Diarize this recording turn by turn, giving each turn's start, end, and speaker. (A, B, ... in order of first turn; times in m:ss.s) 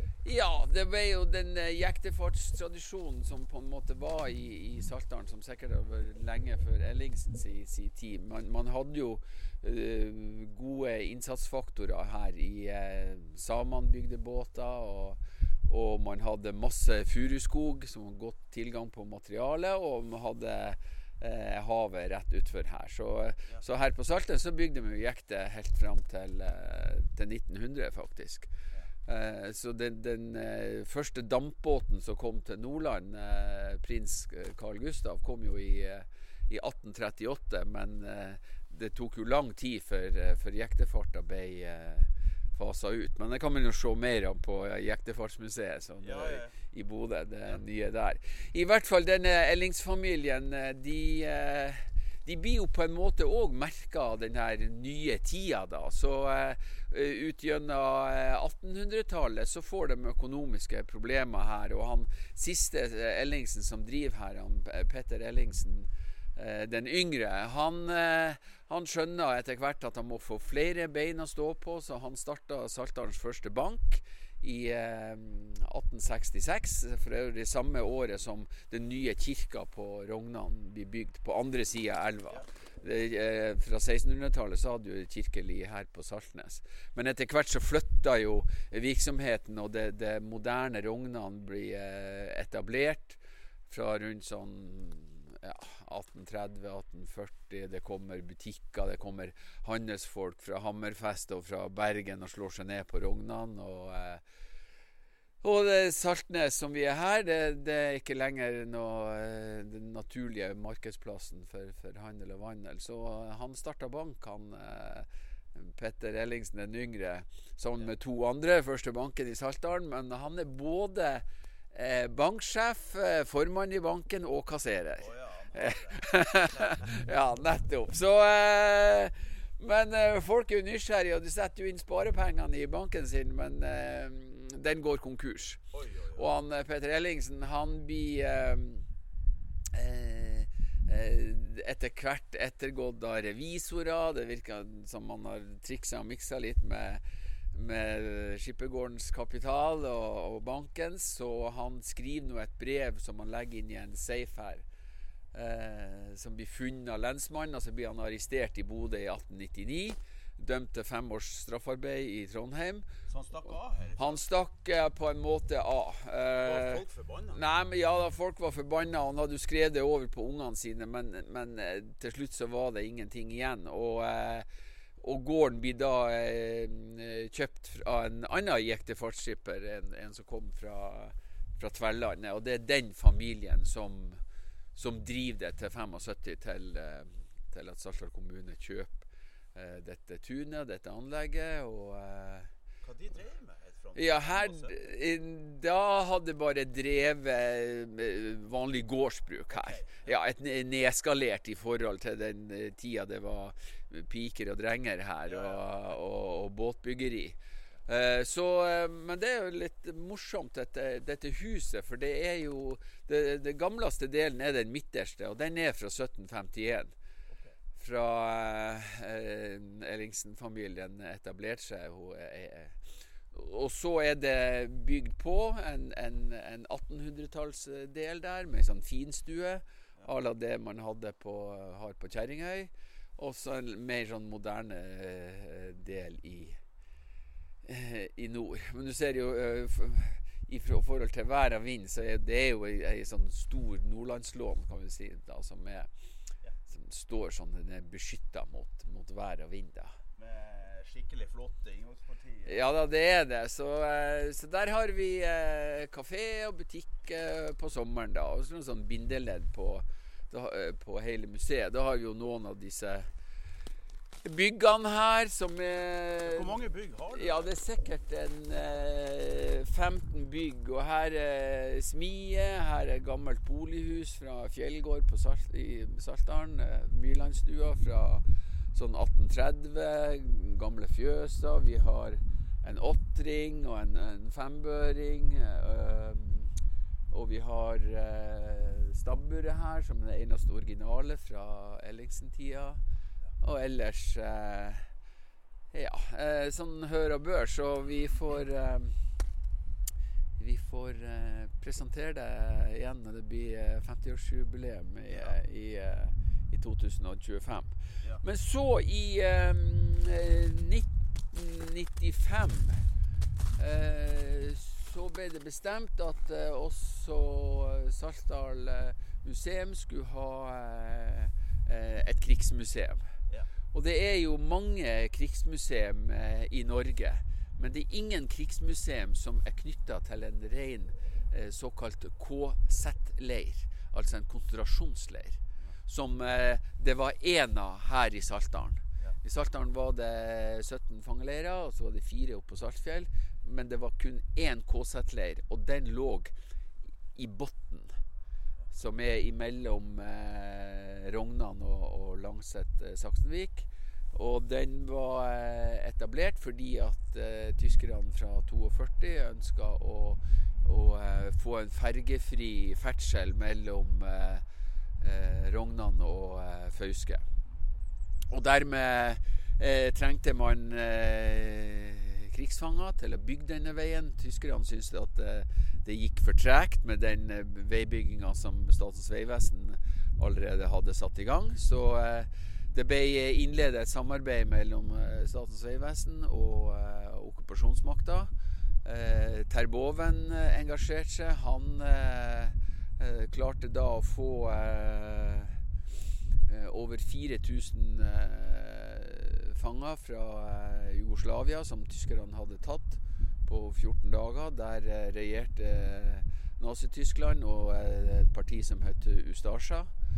0:00.2-0:28.5 A
0:29.0-1:44.2 A
0:46.0-0:46.5 B
1:45.4-1:55.1 A
1:55.7-2:15.6 A
2:05.0-2:06.8 B
2:15.7-2:16.3 B
2:16.1-2:18.8 A
2:19.7-2:27.0 A
2:27.5-2:34.6 A
2:35.3-2:42.9 A
2:43.1-2:44.2 B
2:44.0-2:54.5 A
2:46.4-2:47.4 B
2:55.0-3:04.2 A
3:04.8-3:12.5 A
3:12.8-3:14.8 B
3:13.9-3:36.9 A
3:19.5-3:20.2 B
3:25.2-3:25.8 B
3:37.3-3:37.5 B
3:37.8-3:42.8 A
3:43.3-3:56.6 A
3:57.6-4:05.9 A
4:06.7-4:09.9 A
4:10.2-4:12.6 B
4:12.4-4:23.1 A
4:24.2-4:26.6 A
4:26.3-4:27.5 B
4:27.1-4:46.5 A
4:47.1-4:52.8 A
4:53.4-4:54.9 A
4:55.7-4:59.0 A
5:00.4-5:12.8 A
5:05.1-5:05.4 B
5:13.6-5:23.1 A
5:23.7-5:46.3 A
5:47.1-5:47.9 A
5:48.7-6:04.4 A
6:05.0-6:07.2 A
6:08.3-6:28.3 A
6:28.8-6:35.6 A
6:36.5-6:49.9 A